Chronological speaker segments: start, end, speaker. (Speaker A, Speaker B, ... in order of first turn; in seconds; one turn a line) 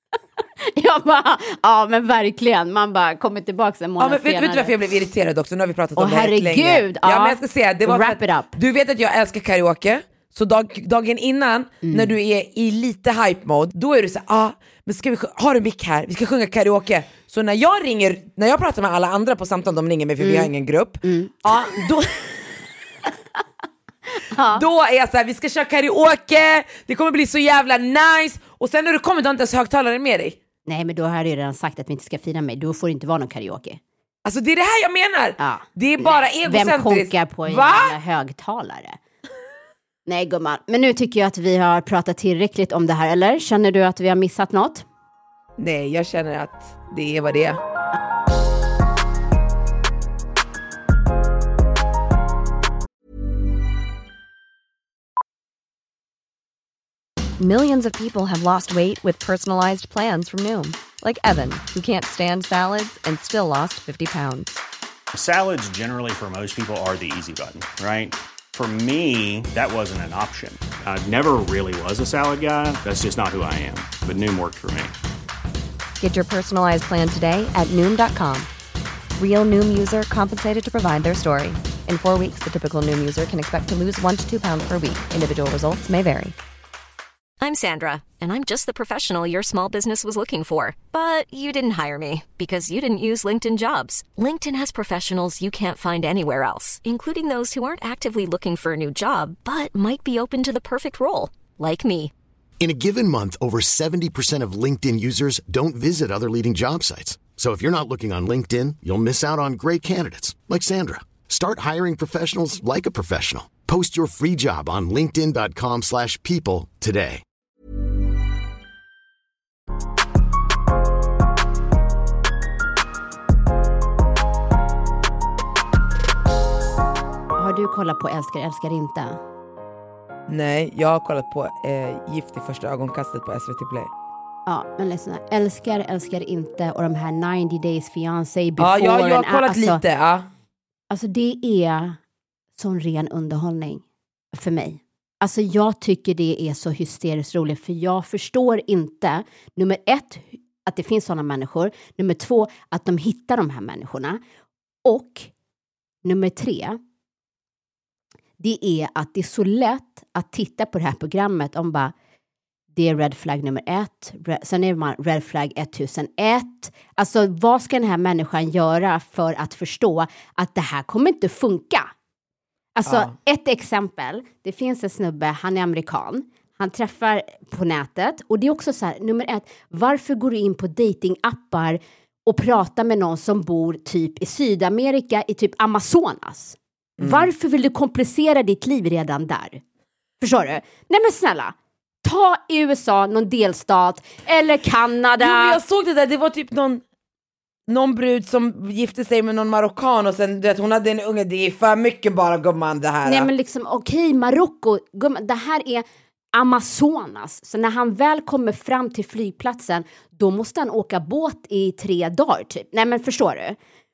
Speaker A: 0.7-4.7
Speaker B: 4.0-22.4
Speaker A: 6.0-8.6
Speaker A: 11.8-12.1
Speaker A: 20.2-20.5
Speaker A: 21.0-21.8
Speaker A: 24.3-24.6
Speaker B: 24.5-30.4
Speaker A: 30.7-33.8
Speaker B: 34.2-38.0
Speaker A: 35.4-39.0
Speaker A: 40.1-44.9
Speaker B: 45.6-47.6
Speaker C: 57.4-64.6
Speaker D: 65.1-74.9
Speaker C: 76.0-78.5
Speaker C: 79.2-86.3
Speaker E: 87.4-102.1
Speaker F: 102.6-117.2
Speaker A: 127.4-129.2
Speaker B: 130.3-133.9
Speaker A: 134.5-139.8
Speaker B: 138.6-140.3
Speaker A: 140.9-142.0
Speaker A: 142.6-154.2
Speaker A: 154.8-155.3
Speaker A: 156.1-156.8
Speaker A: 158.4-161.9
Speaker A: 162.7-171.9
Speaker A: 172.8-189.6
Speaker B: 172.9-173.1
Speaker B: 187.0-187.3
Speaker A: 190.2-195.6
Speaker B: 195.2-196.8
Speaker B: 197.7-203.3
Speaker A: 203.1-213.6